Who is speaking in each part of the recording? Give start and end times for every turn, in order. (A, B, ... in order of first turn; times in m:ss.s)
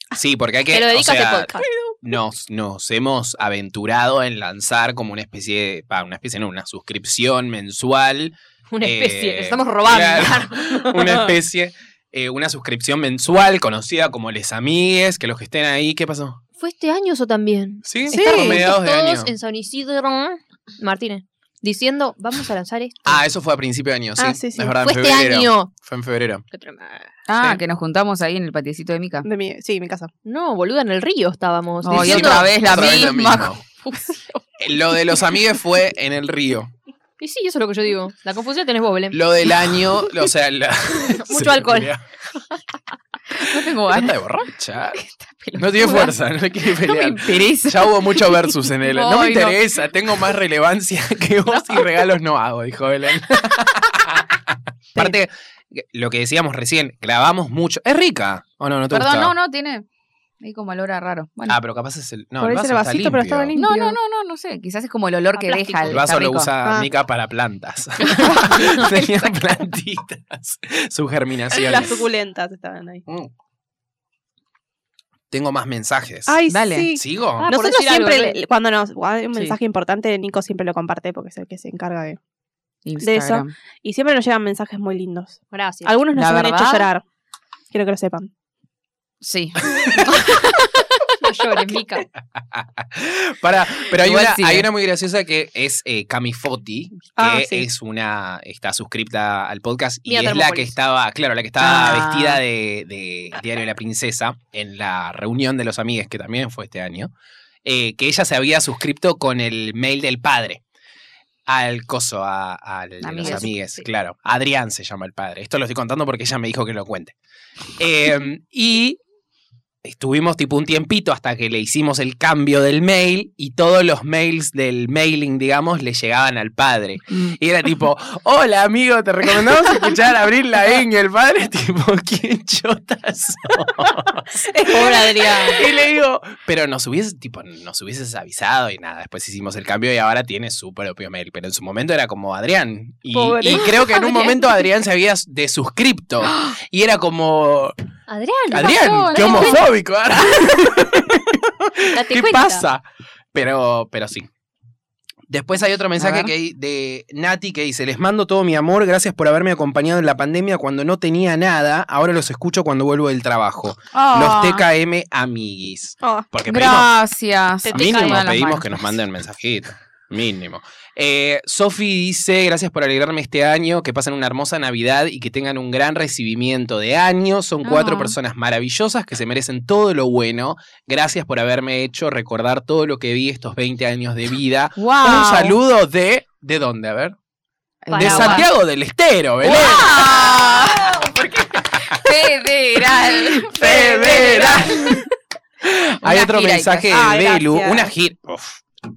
0:00.1-0:01.5 A
0:00.7-0:01.6 B
0:01.6-0:02.0 C
0:02.0-0:16.4 A
0:08.7-0:11.2 B
0:16.6-0:23.2 B
0:17.8-0:19.3 A
0:18.1-0:18.6 C
0:23.0-0:26.4 A
0:24.2-0:24.8 C
0:24.8-0:25.7 B
0:26.5-0:27.1 B
0:27.3-0:29.3 D
0:29.2-0:30.1 C
0:30.2-0:32.8 B
0:31.8-0:34.4 D
0:31.9-0:33.6 A
0:34.6-0:36.7 A
0:37.2-0:39.8 B
0:39.1-0:42.0 A
0:41.0-0:41.9 B
0:43.4-0:44.2 D
0:43.6-0:45.0 A
0:44.9-0:49.6 D
0:45.5-0:59.3 A
0:58.9-0:59.8 D
1:00.4-1:01.6 D
1:01.5-1:03.5 A
1:02.4-1:04.0 C
1:03.5-1:06.5 D
1:05.3-1:06.0 B
1:05.9-1:12.0 A
1:06.6-1:06.9 C
1:08.0-1:09.3 D
1:11.5-1:13.0 C
1:13.1-1:13.3 A
1:15.3-1:16.4 A
1:16.2-1:22.2 C
1:16.5-1:16.9 D
1:16.9-1:17.5 A
1:17.4-1:18.4 B
1:22.8-1:23.5 D
1:23.0-1:27.0 C
1:25.5-1:26.0 B
1:26.1-1:26.9 D
1:27.7-1:28.3 C
1:29.2-1:30.8 D
1:31.2-1:32.1 B
1:32.4-1:47.1 A
1:34.0-1:34.7 D
1:37.2-1:37.7 C
1:40.1-1:40.8 B
1:41.6-1:42.4 D
1:47.6-1:50.6 A
1:51.5-1:57.2 A
1:53.0-1:53.7 D
1:57.8-1:59.0 A
1:59.8-2:27.7 A
2:14.4-2:15.5 C
2:14.6-2:15.7 B
2:23.2-2:23.6 B
2:23.3-2:23.6 C
2:23.6-2:24.4 D
2:28.1-2:29.6 B
2:28.5-2:34.3 A
2:28.6-2:29.6 D
2:31.9-2:32.6 B
2:35.3-2:46.9 A
2:36.0-2:36.3 D
2:43.9-2:44.6 D
2:46.5-2:48.9 D
2:47.6-2:48.2 B
2:47.7-3:07.1 A
2:57.6-2:58.2 D
3:04.8-3:05.6 D
3:07.8-3:08.4 D
3:07.9-3:08.5 B
3:08.0-3:11.1 A
3:09.4-3:15.0 D
3:11.7-3:12.1 A
3:13.2-3:15.0 A
3:14.0-3:14.2 C
3:15.6-3:18.6 A
3:16.0-3:16.9 D
3:16.9-3:17.9 C